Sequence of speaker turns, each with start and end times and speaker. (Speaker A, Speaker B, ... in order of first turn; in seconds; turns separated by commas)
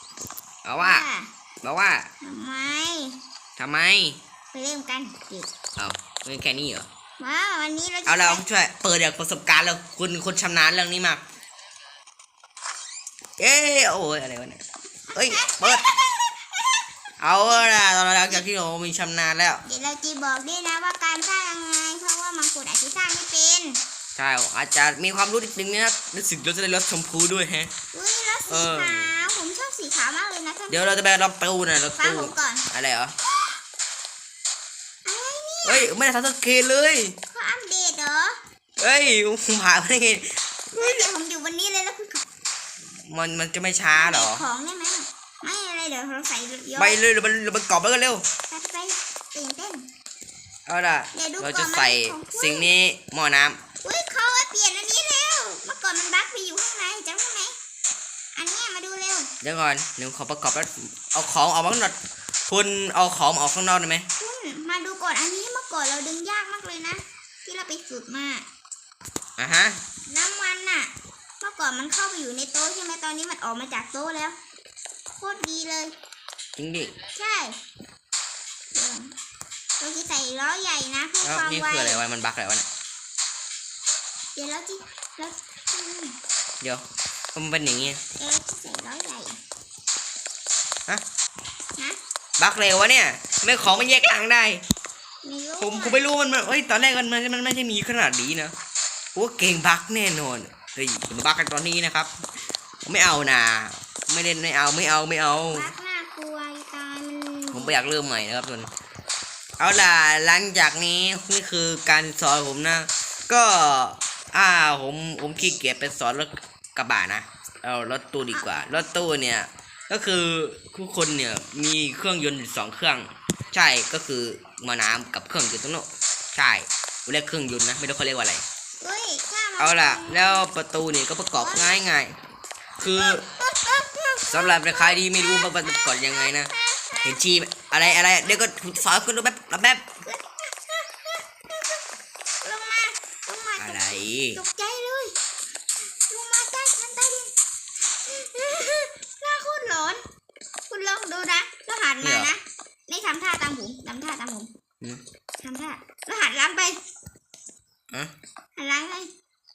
Speaker A: 0.6-1.1, Speaker B: 0.8-1.3, Speaker A: 1.6-2.1, Speaker B: 2.2-3.2, Speaker A: 3.6-4.2, Speaker B: 4.5-5.5, Speaker A: 5.8-6.9, Speaker B: 7.2-8.4, Speaker A: 8.1-11.2, Speaker A: 13.4-14.6, Speaker B: 15.1-16.8, Speaker A: 15.1-15.8, Speaker A: 17.2-19.6, Speaker B: 19.6-23.8, Speaker A: 24.1-27.7, Speaker B: 27.9-30.9, Speaker A: 28.5-29.1, Speaker A: 30.7-33.1, Speaker B: 32.0-32.7, Speaker B: 35.0-35.9, Speaker A: 35.6-37.1, Speaker B: 37.3-38.4, Speaker A: 38.8-41.1, Speaker B: 40.8-42.2, Speaker A: 43.1-44.4, Speaker B: 43.9-47.0, Speaker A: 46.8-48.2, Speaker B: 48.5-49.9, Speaker A: 50.7-53.6, Speaker B: 51.1-52.7, Speaker B: 53.8-57.5, Speaker B: 58.3-59.3, Speaker A: 59.4-62.0, Speaker A: 62.5-64.1, Speaker B: 64.2-68.5, Speaker A: 69.4-69.8, Speaker B: 70.1-74.4, Speaker B: 75.2-75.9, Speaker A: 76.5-76.9, Speaker B: 77.1-77.6, Speaker B: 78.7-79.1, Speaker B: 79.8-82.0, Speaker A: 81.2-82.7, Speaker B: 84.3-86.2, Speaker A: 87.3-88.0, Speaker B: 88.2-89.4, Speaker A: 92.4-94.6, Speaker B: 95.2-96.0, Speaker A: 95.6-98.5, Speaker A: 99.1-102.1, Speaker A: 102.9-105.7, Speaker B: 105.5-107.8, Speaker A: 107.5-108.7, Speaker A: 109.6-128.4, Speaker B: 118.3-118.8, Speaker B: 128.8-130.5, Speaker A: 129.6-132.2, Speaker B: 131.3-131.8, Speaker A: 132.8-133.2, Speaker B: 132.9-137.2, Speaker A: 134.3-136.5, Speaker A: 137.0-139.9, Speaker B: 140.0-141.8, Speaker B: 142.4-145.2, Speaker A: 143.6-144.4, Speaker B: 146.1-147.3, Speaker B: 148.1-150.0, Speaker B: 150.7-154.5, Speaker A: 152.0-152.3, Speaker B: 155.4-156.8, Speaker B: 158.6-159.1